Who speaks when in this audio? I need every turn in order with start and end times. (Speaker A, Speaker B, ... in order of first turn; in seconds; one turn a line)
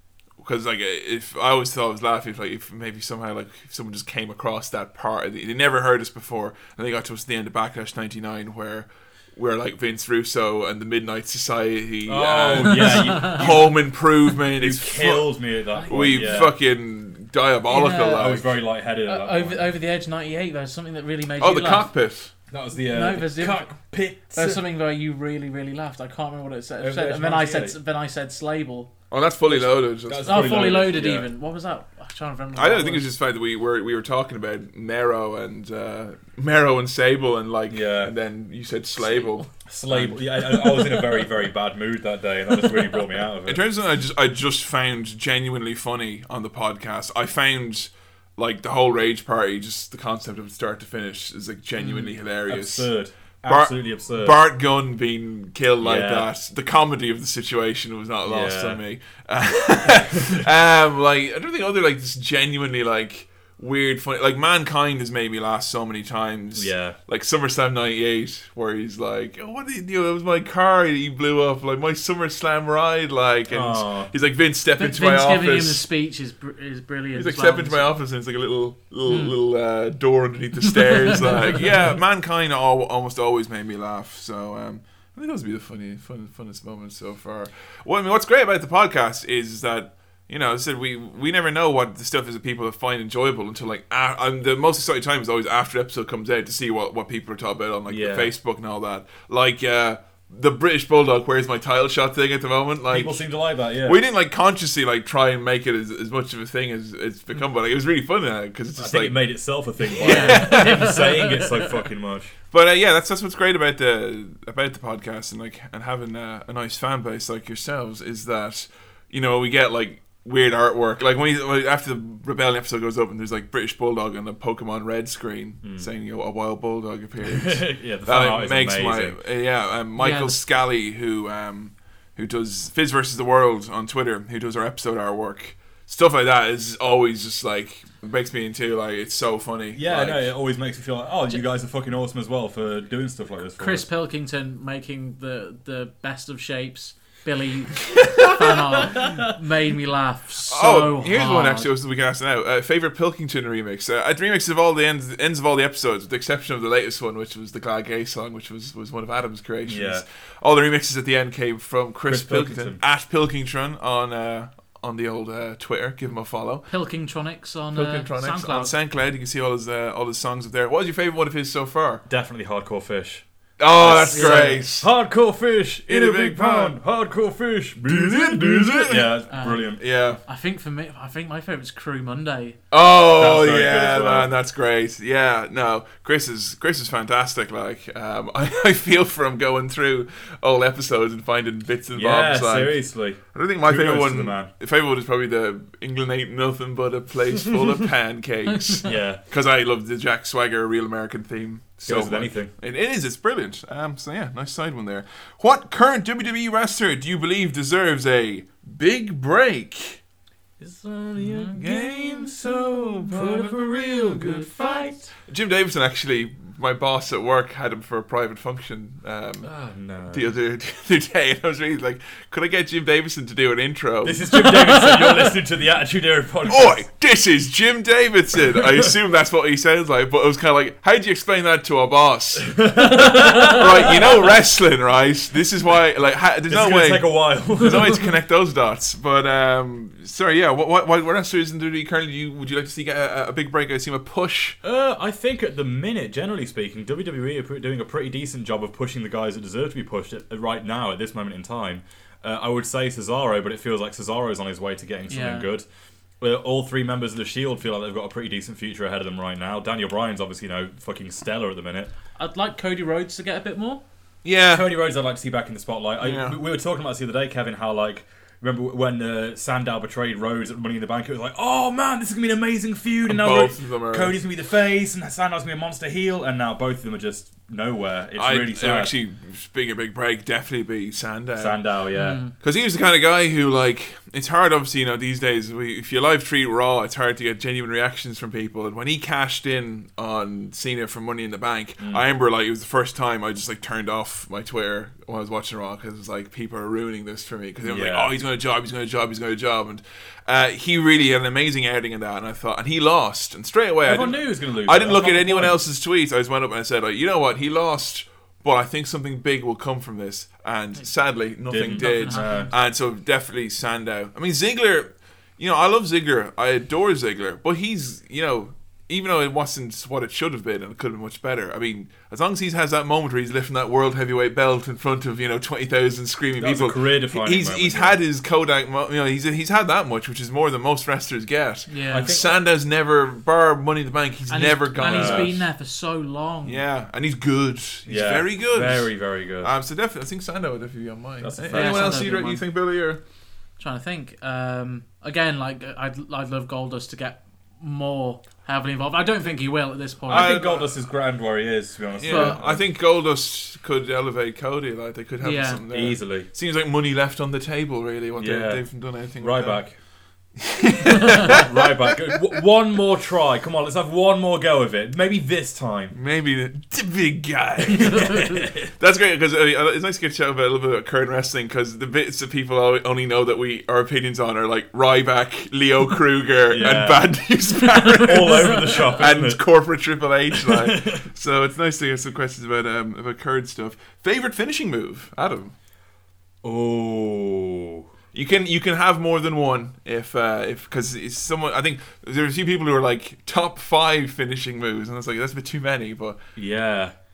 Speaker A: 0.4-18.6
Speaker B: 12.1-16.6
Speaker C: 12.6-13.5
Speaker C: 15.8-16.4
Speaker C: 17.7-18.4
Speaker B: 18.2-19.7
Speaker C: 19.1-21.9
Speaker A: 21.4-22.3
Speaker B: 22.5-24.6
Speaker C: 22.9-23.7
Speaker C: 24.3-28.9
Speaker B: 26.8-27.8
Speaker A: 29.1-31.0
Speaker C: 29.5-33.1
Speaker B: 30.1-31.3
Speaker A: 32.5-40.6
Speaker B: 37.7-38.1
Speaker C: 39.1-39.5
Speaker B: 39.7-43.6
Speaker A: 43.5-52.9
Speaker B: 52.5-54.4
Speaker A: 53.5-75.8
Speaker B: 55.8-56.3
Speaker B: 58.3-58.8
Speaker B: 66.6-67.0
Speaker B: 73.5-74.1
Speaker C: 74.8-77.9
Speaker A: 77.2-103.3
Speaker C: 79.1-79.3
Speaker C: 81.1-81.6
Speaker B: 97.9-98.3
Speaker B: 102.9-104.0
Speaker A: 103.8-109.4
Speaker B: 108.8-112.3
Speaker A: 109.9-111.0
Speaker C: 110.0-111.1
Speaker A: 112.5-140.3
Speaker B: 125.6-125.9
Speaker B: 127.3-129.2
Speaker C: 130.0-130.4
Speaker B: 139.8-143.9
Speaker C: 143.6-151.7
Speaker A: 148.0-148.4
Speaker A: 150.5-166.7
Speaker B: 159.7-160.0
Speaker B: 162.1-162.8
Speaker C: 166.7-168.7
Speaker A: 167.7-172.0
Speaker B: 172.1-179.8
Speaker A: 173.6-174.9
Speaker C: 174.1-174.6
Speaker A: 175.9-176.8
Speaker A: 177.8-179.1
Speaker C: 179.3-179.7
Speaker A: 179.8-180.2
Speaker C: 180.2-182.6
Speaker A: 182.7-192.8
Speaker B: 183.2-184.3
Speaker B: 191.9-194.5
Speaker A: 193.3-210.0
Speaker B: 198.8-199.2
Speaker B: 201.9-202.5
Speaker B: 210.6-215.1
Speaker C: 211.2-211.5
Speaker A: 211.5-214.5
Speaker A: 215.3-219.5
Speaker B: 219.4-220.3
Speaker A: 220.1-224.5
Speaker B: 224.0-226.8
Speaker A: 226.5-244.6
Speaker B: 232.4-234.1
Speaker B: 236.5-238.1
Speaker B: 244.6-255.7
Speaker C: 255.1-255.5
Speaker B: 256.2-261.9
Speaker C: 262.1-263.8
Speaker A: 264.2-264.7
Speaker B: 264.5-278.9
Speaker A: 266.0-266.4
Speaker A: 273.1-274.2
Speaker A: 278.2-281.6
Speaker B: 281.4-282.2
Speaker C: 281.9-282.3
Speaker A: 282.4-335.5
Speaker B: 297.6-298.1
Speaker B: 303.9-305.6
Speaker B: 311.5-312.5
Speaker C: 311.7-312.5
Speaker B: 326.4-328.0
Speaker C: 331.7-332.1
Speaker B: 331.9-332.4
Speaker C: 334.3-336.6
Speaker B: 334.8-335.3
Speaker A: 336.4-343.0
Speaker B: 337.9-339.5
Speaker B: 341.2-342.1
Speaker C: 341.5-342.4
Speaker C: 343.6-350.4
Speaker A: 350.1-350.8
Speaker B: 350.1-352.7
Speaker A: 352.0-359.7
Speaker C: 352.1-352.4
Speaker C: 355.2-355.6
Speaker B: 355.7-356.3
Speaker B: 358.2-359.8
Speaker A: 360.4-361.4
Speaker B: 361.3-366.0
Speaker A: 365.9-385.5
Speaker B: 367.8-368.7
Speaker B: 376.5-377.1
Speaker B: 378.0-379.4
Speaker B: 380.3-381.1
Speaker B: 386.4-387.9
Speaker A: 388.1-396.2
Speaker B: 396.4-396.9